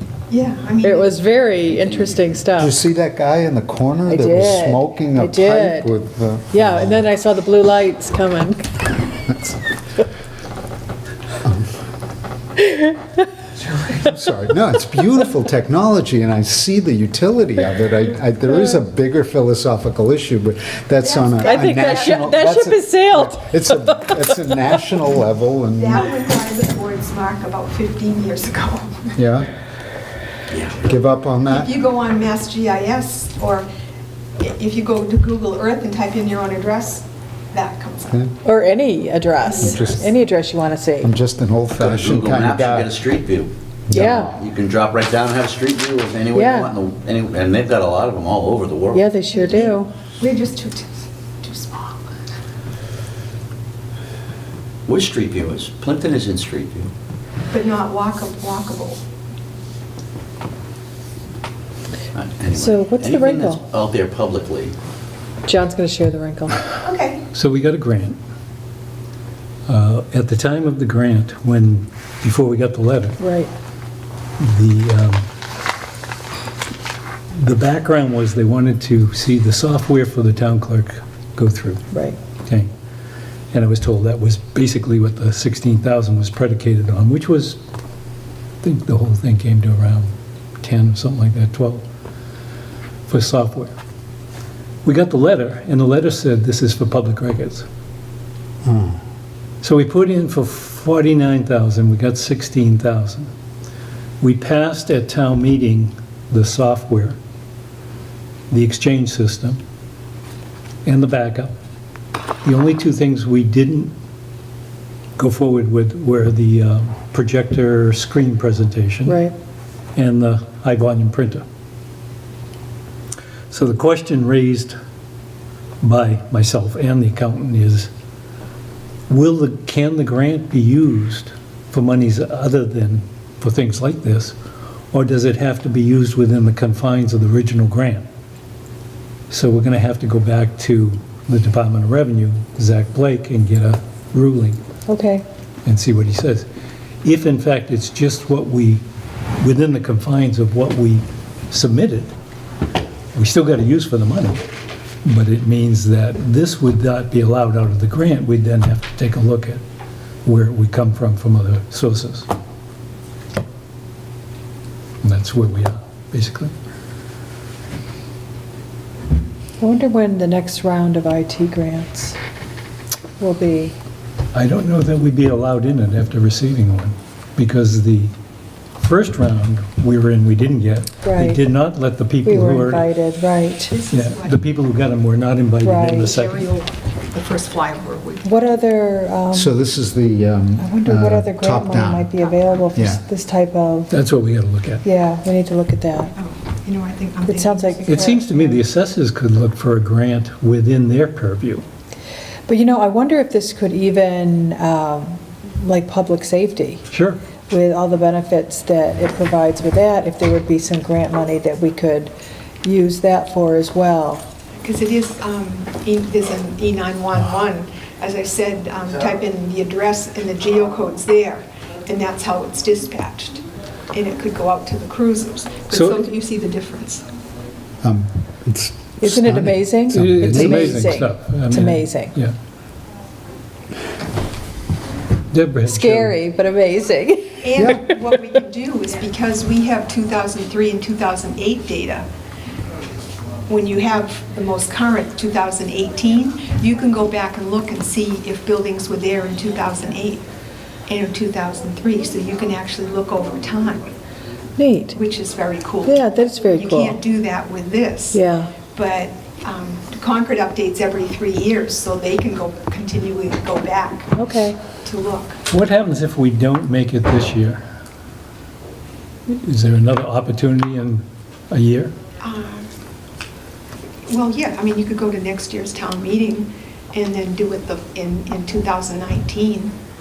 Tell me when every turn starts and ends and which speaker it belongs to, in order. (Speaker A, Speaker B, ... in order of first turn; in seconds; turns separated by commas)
Speaker A: 0.3-1.2, Speaker B: 0.8-2.8, Speaker C: 2.6-7.0, Speaker B: 4.1-5.9, Speaker B: 6.5-8.9, Speaker C: 11.4-11.7, Speaker B: 12.6-13.2, Speaker C: 13.7-26.0, Speaker A: 21.0-22.4, Speaker B: 21.4-24.5, Speaker A: 25.8-29.1, Speaker C: 29.1-29.5, Speaker D: 30.5-30.8, Speaker C: 30.8-31.7, Speaker A: 31.5-33.7, Speaker A: 34.4-38.2, Speaker B: 38.4-41.1, Speaker A: 39.4-40.1, Speaker C: 39.6-40.1, Speaker C: 41.0-42.9, Speaker D: 41.8-43.5, Speaker C: 43.9-44.3, Speaker B: 43.9-44.3, Speaker D: 44.0-49.1, Speaker B: 46.3-46.7, Speaker B: 48.9-49.9, Speaker A: 49.2-52.1, Speaker D: 54.9-56.9, Speaker A: 57.5-59.0, Speaker D: 62.1-64.8, Speaker B: 62.5-63.6, Speaker B: 65.5-66.7, Speaker A: 66.8-67.2, Speaker E: 67.3-68.2, Speaker E: 69.7-73.2, Speaker B: 73.2-73.5, Speaker E: 74.4-75.2, Speaker E: 77.3-81.8, Speaker B: 81.9-82.2, Speaker E: 82.4-82.7, Speaker E: 83.5-87.6, Speaker E: 88.6-91.8, Speaker E: 93.1-93.7, Speaker E: 94.8-97.7, Speaker C: 98.6-99.0, Speaker E: 99.6-103.3, Speaker E: 104.2-107.2, Speaker E: 108.5-109.6, Speaker E: 110.8-111.5, Speaker E: 112.4-113.9, Speaker E: 115.2-119.2, Speaker B: 119.0-119.3, Speaker E: 120.0-121.4, Speaker E: 123.5-124.8, Speaker E: 125.8-127.9, Speaker E: 129.1-134.3, Speaker E: 134.9-138.1, Speaker E: 139.3-144.6, Speaker B: 144.9-145.2, Speaker E: 145.6-146.5, Speaker E: 147.0-148.8, Speaker E: 149.4-152.1, Speaker E: 153.1-154.4, Speaker E: 155.0-159.6, Speaker E: 160.2-162.3, Speaker E: 165.0-166.5, Speaker B: 169.6-172.2, Speaker B: 173.2-173.7, Speaker E: 174.3-178.1, Speaker E: 178.8-182.8, Speaker B: 181.0-181.4, Speaker B: 182.2-183.8, Speaker A: 183.7-184.3, Speaker E: 183.9-186.5, Speaker B: 185.6-186.1, Speaker A: 186.0-188.3, Speaker B: 188.2-189.5, Speaker C: 189.3-192.2, Speaker B: 190.6-193.9, Speaker C: 192.7-193.0, Speaker E: 193.9-194.8, Speaker B: 194.8-196.1, Speaker A: 196.1-198.6, Speaker B: 197.2-198.3, Speaker E: 197.9-201.6, Speaker B: 202.5-206.8, Speaker E: 206.9-207.2, Speaker B: 207.5-212.1, Speaker B: 212.6-214.2, Speaker A: 214.6-227.0, Speaker E: 225.7-226.1, Speaker C: 227.8-231.0, Speaker B: 229.0-232.2, Speaker E: 229.9-232.3, Speaker E: 235.3-236.2, Speaker B: 235.6-237.4, Speaker A: 237.4-242.0, Speaker C: 237.5-237.9, Speaker A: 243.5-250.2, Speaker A: 250.9-253.9, Speaker B: 254.6-255.0, Speaker A: 254.9-265.4, Speaker B: 255.8-257.0, Speaker B: 258.1-258.6, Speaker B: 264.1-264.7, Speaker E: 265.5-267.6, Speaker E: 269.3-271.9, Speaker A: 272.2-272.7, Speaker A: 274.1-279.7